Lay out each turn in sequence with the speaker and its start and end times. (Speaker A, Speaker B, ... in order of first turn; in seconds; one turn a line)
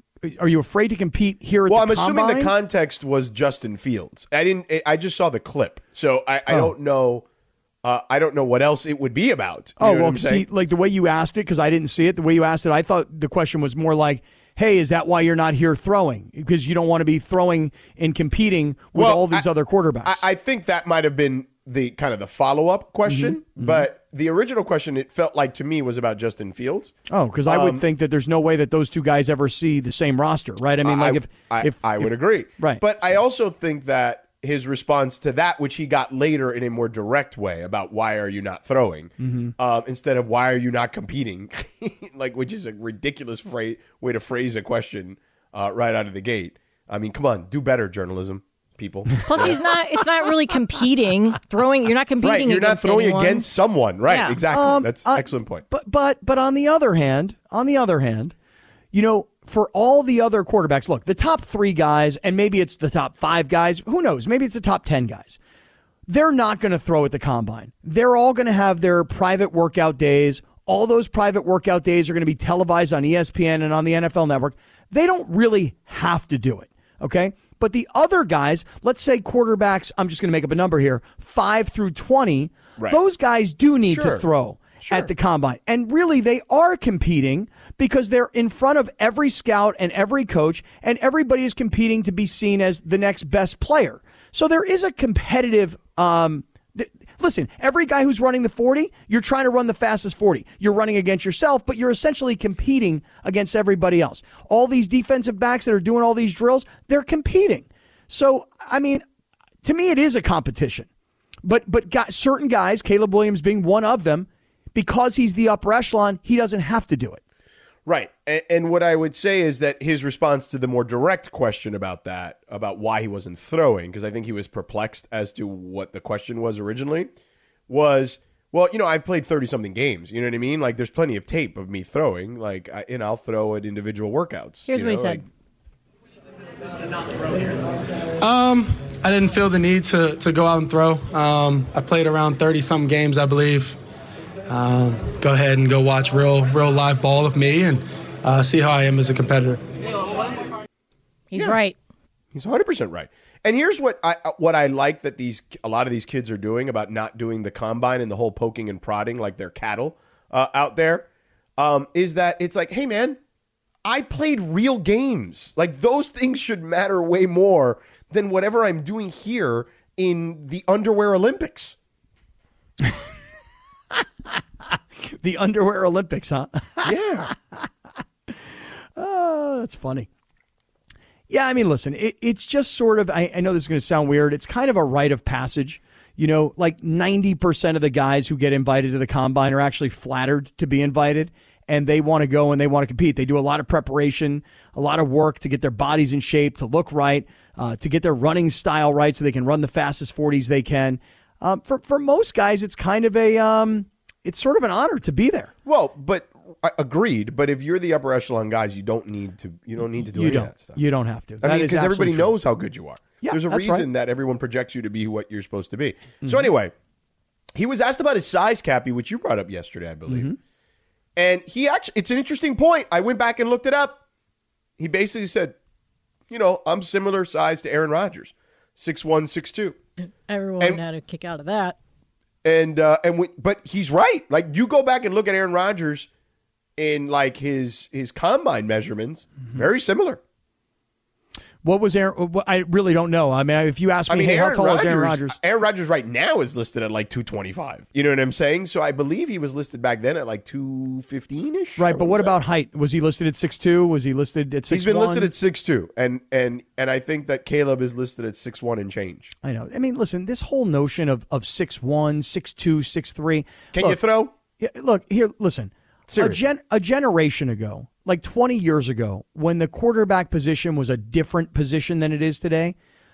Speaker A: 0.2-2.5
Speaker B: 1.7-7.2
Speaker B: 7.8-10.4
Speaker A: 9.8-20.2
Speaker B: 18.9-19.5
Speaker B: 20.0-26.9
Speaker A: 23.1-23.9
Speaker A: 27.1-32.8
Speaker B: 27.4-27.8
Speaker B: 30.8-49.7
Speaker A: 39.2-39.5
Speaker C: 49.2-53.5
Speaker B: 52.2-55.6
Speaker C: 54.1-54.4
Speaker A: 54.5-58.3
Speaker A: 58.9-65.4
Speaker A: 66.1-109.0
Speaker B: 83.9-84.2
Speaker B: 84.8-85.1
Speaker A: 109.6-110.9
Speaker A: 111.4-117.2
Speaker B: 117.9-127.1
Speaker B: 127.7-135.2
Speaker C: 134.7-135.2
Speaker D: 138.2-143.8
Speaker D: 144.5-149.6
Speaker C: 151.3-151.8
Speaker B: 152.3-163.2
Speaker B: 163.8-171.8
Speaker A: 175.2-176.9
Speaker B: 176.8-177.3
Speaker A: 178.9-180.1
Speaker A: 181.3-205.5
Speaker B: 205.6-210.8
Speaker A: 210.0-212.3
Speaker B: 211.4-216.7
Speaker A: 213.2-213.9
Speaker B: 217.5-220.3
Speaker A: 220.1-220.4
Speaker B: 221.2-224.0
Speaker B: 224.8-225.5
Speaker B: 226.3-229.8
Speaker C: 230.3-231.8
Speaker B: 232.4-236.1
Speaker B: 236.8-240.2
Speaker A: 241.6-245.4
Speaker B: 244.1-252.3
Speaker A: 251.8-255.3
Speaker B: 254.7-259.3
Speaker A: 259.4-264.0
Speaker B: 263.7-264.3
Speaker A: 264.6-272.7
Speaker B: 266.1-266.4